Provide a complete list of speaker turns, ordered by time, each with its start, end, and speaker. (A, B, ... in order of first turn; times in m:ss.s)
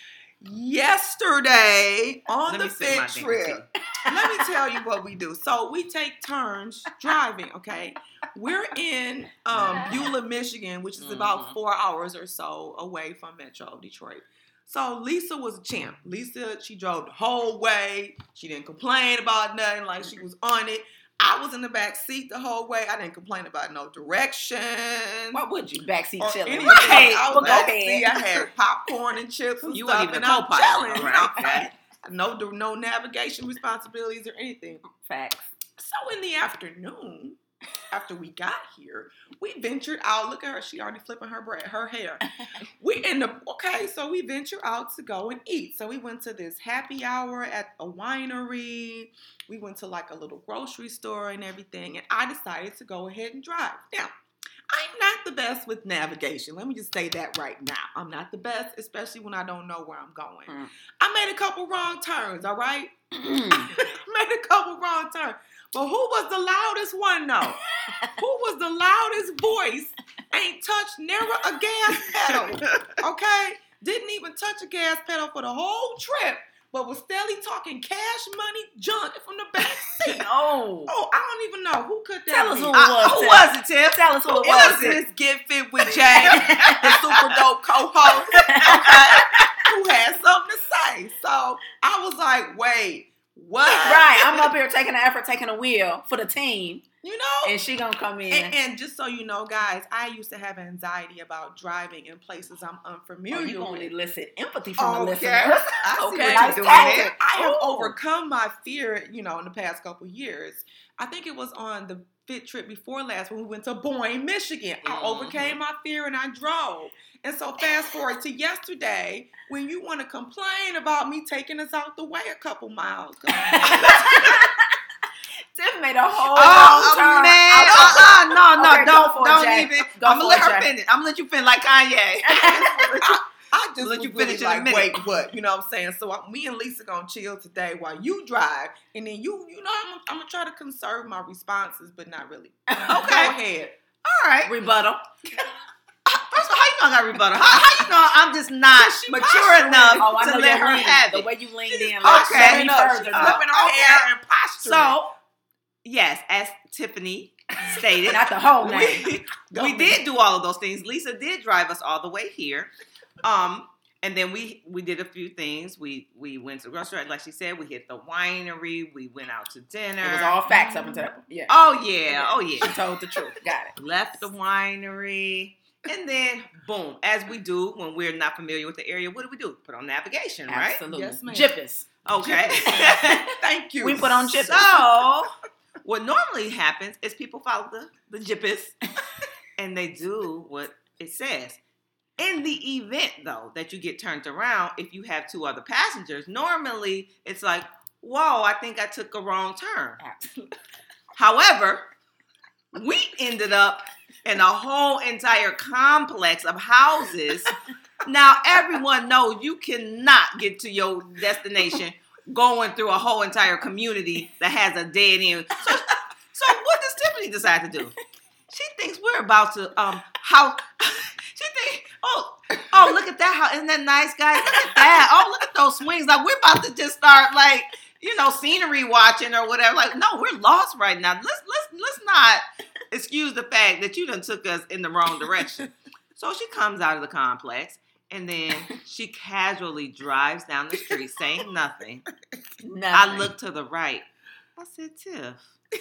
0:00.4-0:25.4 A
0:02.5-0:03.7 B
0:04.0-0:04.5 C
0:11.0-0:11.6 B
0:25.3-0:28.2 C
0:26.2-0:34.8 A
0:26.6-0:27.6 B
0:29.7-0:31.7 B
0:34.8-0:35.5 C
0:35.8-0:54.1 A
0:54.7-1:07.6 A
1:03.1-1:03.7 C
1:07.8-1:08.1 C
1:08.2-1:20.2 A
1:12.3-1:12.9 B
1:19.9-1:20.9 C
1:20.9-1:22.7 A
1:22.3-1:24.9 C
1:22.7-1:25.0 B
1:24.4-1:34.5 A
1:25.8-1:27.0 B
1:26.1-1:27.4 C
1:28.2-1:29.6 C
1:33.7-1:36.8 C
1:37.0-1:37.6 A
1:37.4-1:38.5 C
1:38.3-1:43.9 A
1:43.3-1:47.9 C
1:44.8-2:04.5 A
1:46.2-1:47.1 B
1:54.8-1:55.6 B
2:03.3-2:04.8 C
2:05.5-2:10.7 C
2:06.3-2:12.9 B
2:06.4-2:07.1 A
2:07.6-2:08.2 A
2:12.2-2:13.1 C
2:12.9-2:23.8 A
2:13.8-2:15.0 B
2:22.7-2:23.0 C
2:22.9-2:23.4 B
2:24.0-2:24.5 B
2:24.4-2:25.5 C
2:26.1-2:33.9 B
2:29.1-2:30.2 A
2:29.9-2:33.8 C
2:32.0-2:35.0 A
2:34.6-2:35.0 B
2:34.6-2:34.9 C
2:35.8-2:42.7 B
2:38.0-2:39.1 C
2:39.0-2:40.0 A
2:43.2-2:50.4 B
2:50.0-2:51.5 C
2:50.5-2:51.1 A
2:51.5-2:52.8 B
2:52.1-2:53.8 C
2:53.8-3:00.8 B
3:00.5-3:01.9 C
3:00.9-3:01.5 A
3:02.0-3:03.2 B
3:02.2-3:04.7 A
3:02.6-3:03.2 C
3:03.8-3:05.1 C
3:04.3-3:05.3 B
3:05.8-3:08.8 B
3:09.6-3:11.6 B
3:12.2-3:20.0 B
3:20.0-3:20.3 C
3:21.2-3:21.9 B
3:22.7-3:27.5 B
3:28.0-3:38.0 B
3:38.5-4:02.1 B
4:02.6-4:03.3 C
4:02.9-4:04.0 B
4:04.6-4:05.5 B